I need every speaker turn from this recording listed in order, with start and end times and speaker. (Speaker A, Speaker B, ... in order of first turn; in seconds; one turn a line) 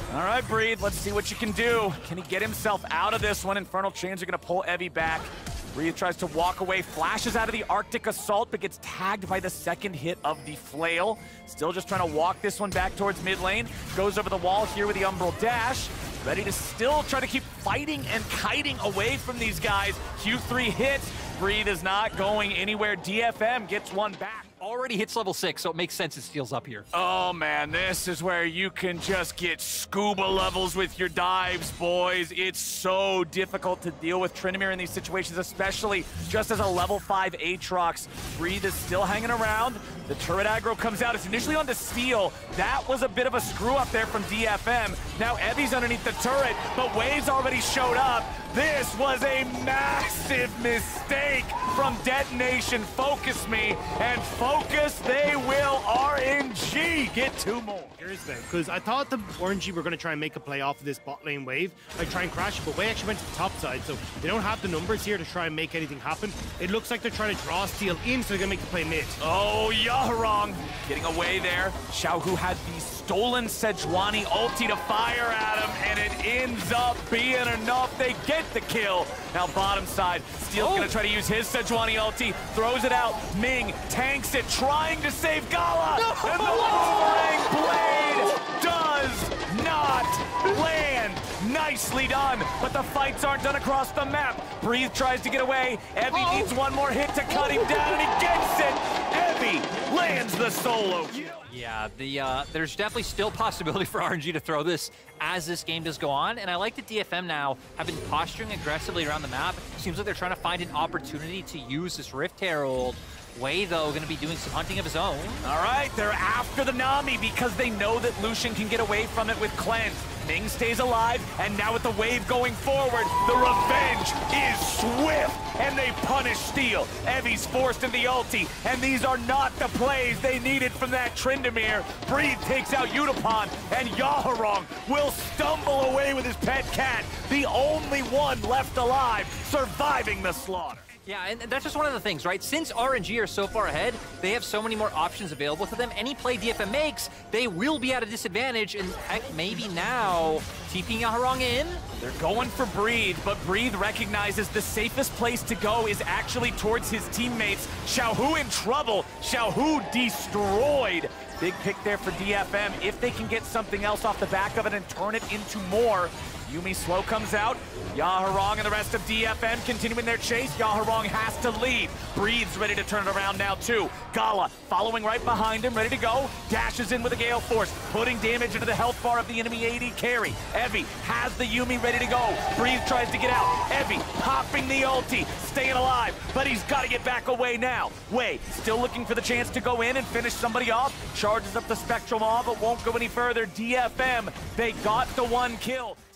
Speaker A: 0.1-24.5
Speaker B: 24.6-26.9
Speaker A: 26.9-58.0
Speaker C: 58.0-69.2
Speaker A: 69.2-101.4
Speaker B: 80.6-80.9
Speaker B: 86.0-86.3
Speaker B: 101.4-115.5
Speaker A: 115.4-140.8
Speaker B: 141.1-151.8
Speaker A: 152.0-196.0